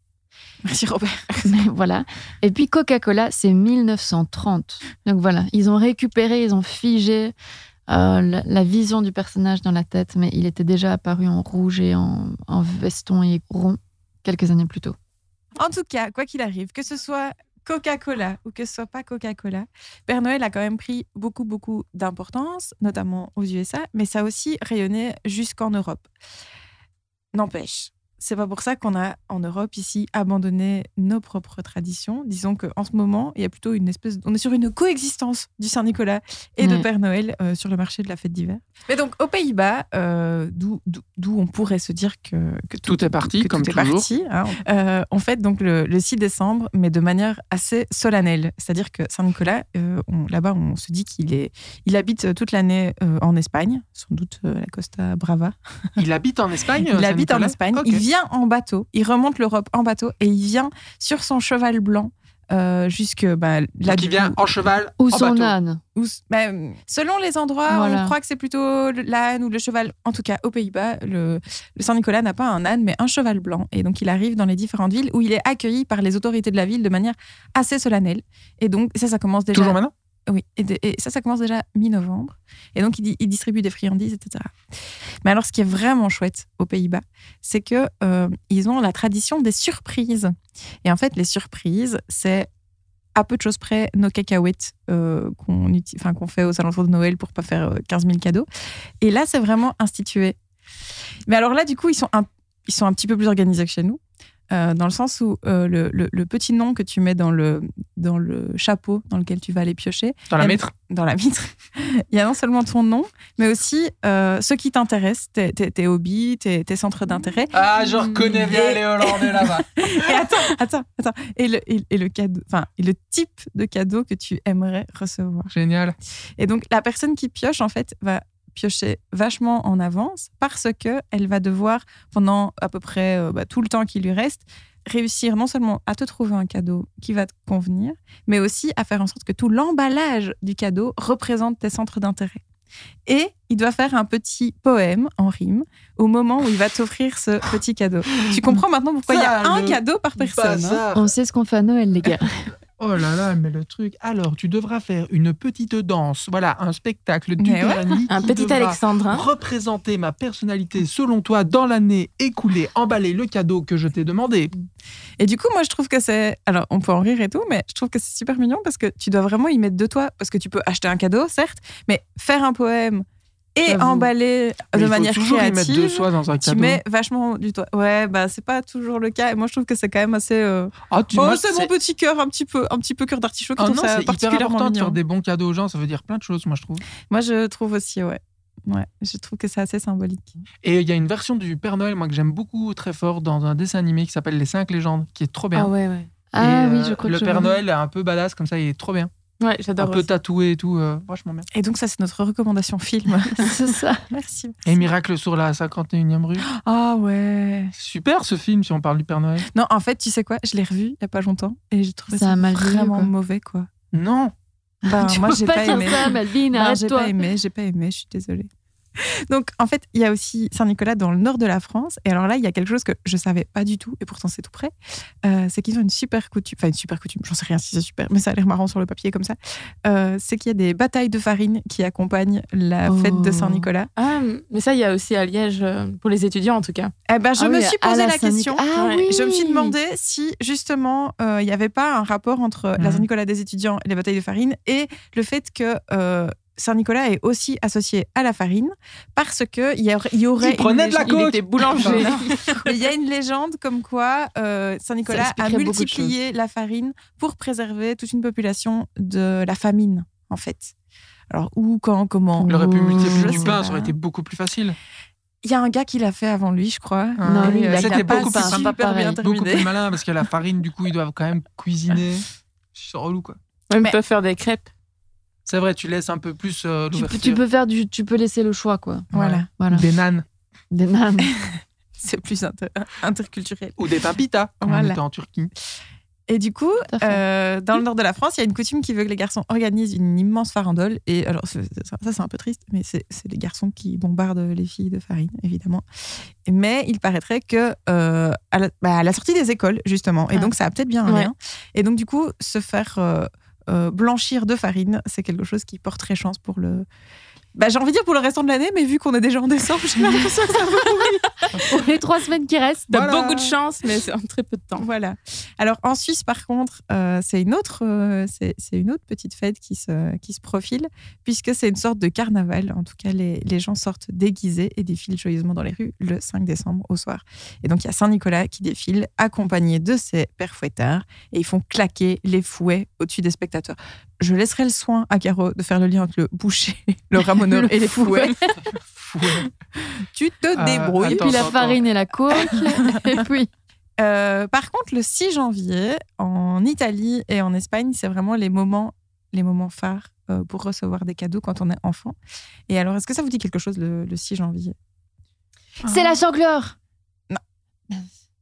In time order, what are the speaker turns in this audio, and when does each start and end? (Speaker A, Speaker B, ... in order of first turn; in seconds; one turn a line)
Speaker A: 0.6-1.5
Speaker B: 1.4-7.3
Speaker B: 7.9-14.9
Speaker A: 15.6-26.1
Speaker A: 27.3-55.5
Speaker C: 42.9-44.1
Speaker C: 56.0-58.0
Speaker A: 56.9-64.4
Speaker C: 63.9-65.5
Speaker B: 65.0-65.8
Speaker A: 66.0-84.5
Speaker B: 67.7-68.1
Speaker C: 79.5-79.9
Speaker A: 85.2-92.5
Speaker A: 93.1-98.5
Speaker A: 99.0-100.3
Speaker A: 101.3-117.6
Speaker C: 110.3-110.7
Speaker C: 117.5-120.4
Speaker A: 118.3-125.5
Speaker C: 125.5-126.0
Speaker A: 126.4-142.4
Speaker A: 143.1-150.8
Speaker C: 148.3-151.1
Speaker B: 150.9-152.4
Speaker C: 152.8-164.5
Speaker A: 157.4-158.0
Speaker D: 158.1-159.2
Speaker A: 165.2-185.0
Speaker C: 173.7-174.1
Speaker C: 174.7-176.8
Speaker C: 180.9-181.7
Speaker C: 183.6-186.8
Speaker A: 187.1-190.3
Speaker C: 190.6-195.7
Speaker D: 195.5-196.1
Speaker B: 196.3-197.6
Speaker C: 196.4-199.1
Speaker D: 199.4-200.1
Speaker C: 199.8-201.5
Speaker A: 201.5-204.6
Speaker B: 203.3-204.0
Speaker C: 204.6-206.5
Speaker A: 206.4-207.7
Speaker C: 207.8-209.5
Speaker A: 209.5-213.7
Speaker B: 212.1-213.1
Speaker C: 213.9-214.3
Speaker A: 214.8-224.7
Speaker B: 214.9-217.2
Speaker A: 225.2-233.9
Speaker B: 232.9-233.7
Speaker D: 234.0-236.9
Speaker A: 237.1-260.7
Speaker B: 237.4-239.7
Speaker D: 238.7-239.0
Speaker C: 242.8-243.1
Speaker C: 250.4-252.5
Speaker D: 251.7-252.2
Speaker B: 255.1-256.1
Speaker A: 261.3-263.9
Speaker B: 262.4-263.3
Speaker C: 262.5-264.8
Speaker A: 265.4-269.7
Speaker C: 267.2-273.4
Speaker B: 267.2-269.2
Speaker D: 273.7-274.7
Speaker C: 275.4-277.4
Speaker B: 276.9-279.8
Speaker A: 279.1-279.5
Speaker C: 279.1-280.2
Speaker B: 280.7-281.3
Speaker A: 282.0-283.8
Speaker C: 283.8-285.5
Speaker A: 284.6-285.0
Speaker A: 286.3-295.8
Speaker B: 286.9-287.2
Speaker A: 296.4-306.9
Speaker A: 307.5-311.6
Speaker B: 311.6-313.0
Speaker D: 312.9-314.9
Speaker C: 312.9-313.3
Speaker A: 314.8-338.5
Speaker B: 337.6-338.5
Speaker C: 338.9-339.5
Speaker A: 340.1-341.5
Speaker C: 340.5-341.8
Speaker B: 341.0-343.5
Speaker A: 344.0-352.1
Speaker A: 352.7-354.7
Speaker B: 355.8-356.7